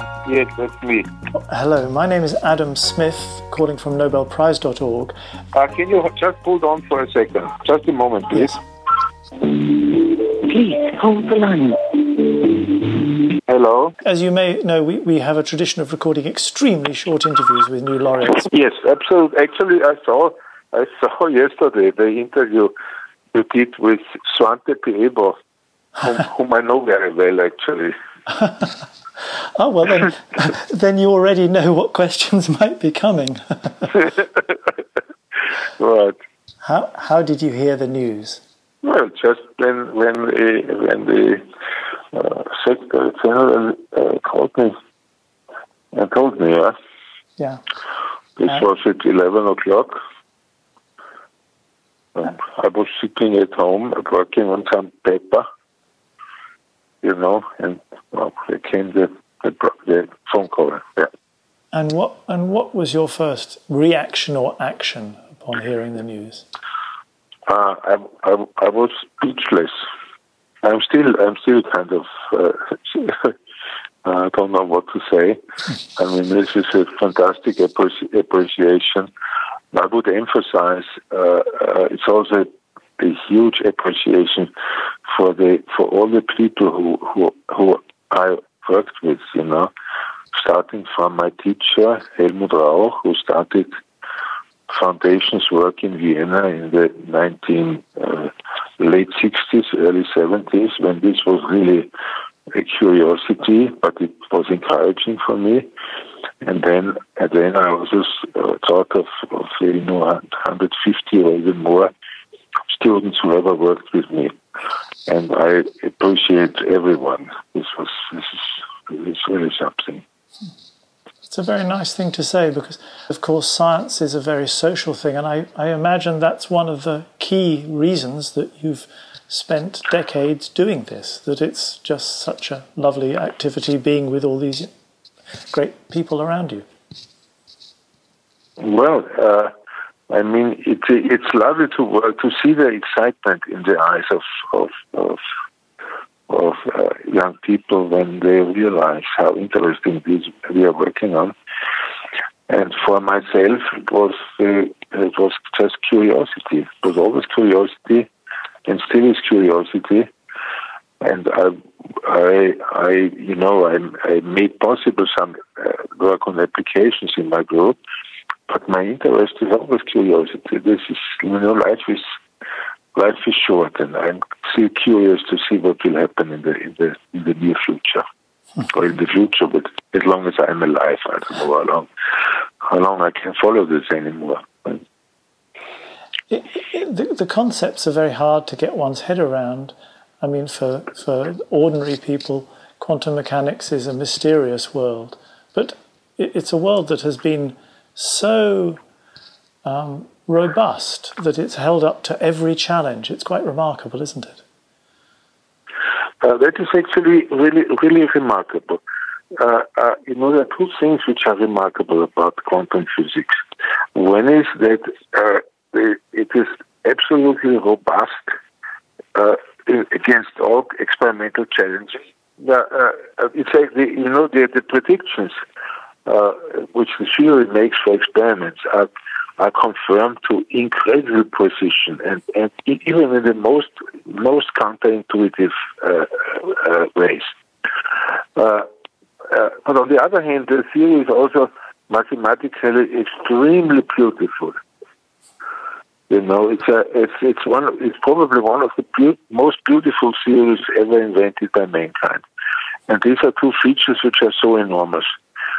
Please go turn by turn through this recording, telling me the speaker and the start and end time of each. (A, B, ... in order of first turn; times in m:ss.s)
0:00.2-0:01.1 A
0:01.3-0:05.1 B
0:05.5-0:08.6 A
0:08.3-0:08.6 B
0:09.4-0:14.0 A
0:14.0-0:18.5 B
0:18.4-0:22.7 A
0:23.3-0:25.4 A
0:26.0-0:27.9 A
0:29.5-0:34.0 B
0:35.8-0:36.2 A
0:36.6-0:38.4 B
0:38.8-0:41.4 A
0:42.1-0:44.7 A
0:45.9-0:46.7 A
0:48.4-0:50.0 A
0:52.1-0:55.4 A
0:57.0-1:01.1 A
1:01.7-1:06.4 B
1:07.5-1:09.7 A
1:10.6-1:13.3 A
1:14.0-1:15.4 A
1:16.0-1:19.1 A
1:19.7-1:24.5 A
1:25.1-1:29.7 A
1:30.3-1:33.7 A
1:34.7-1:41.9 A
1:42.5-1:45.7 A
1:46.4-1:51.9 A
1:52.7-1:54.3 A
1:55.1-2:00.0 A
2:01.2-2:14.7 B
2:15.5-2:16.6 B
2:18.6-2:19.5 A
2:20.1-2:25.2 A
2:26.3-2:31.3 A
2:32.5-2:38.1 A
2:38.6-2:40.1 A
2:41.0-2:47.8 A
2:48.5-2:52.0 A
2:52.9-2:58.0 A
2:58.7-3:01.9 A
3:02.6-3:04.8 A
3:06.3-3:18.8 B
3:19.6-3:24.4 B
3:26.2-3:28.8 A
3:29.3-3:33.3 A
3:33.9-3:38.3 A
3:39.1-3:45.3 A
3:46.0-3:57.3 A
3:58.3-3:58.7 A
3:59.2-4:04.6 A
4:06.1-4:12.2 A
4:12.9-4:15.0 A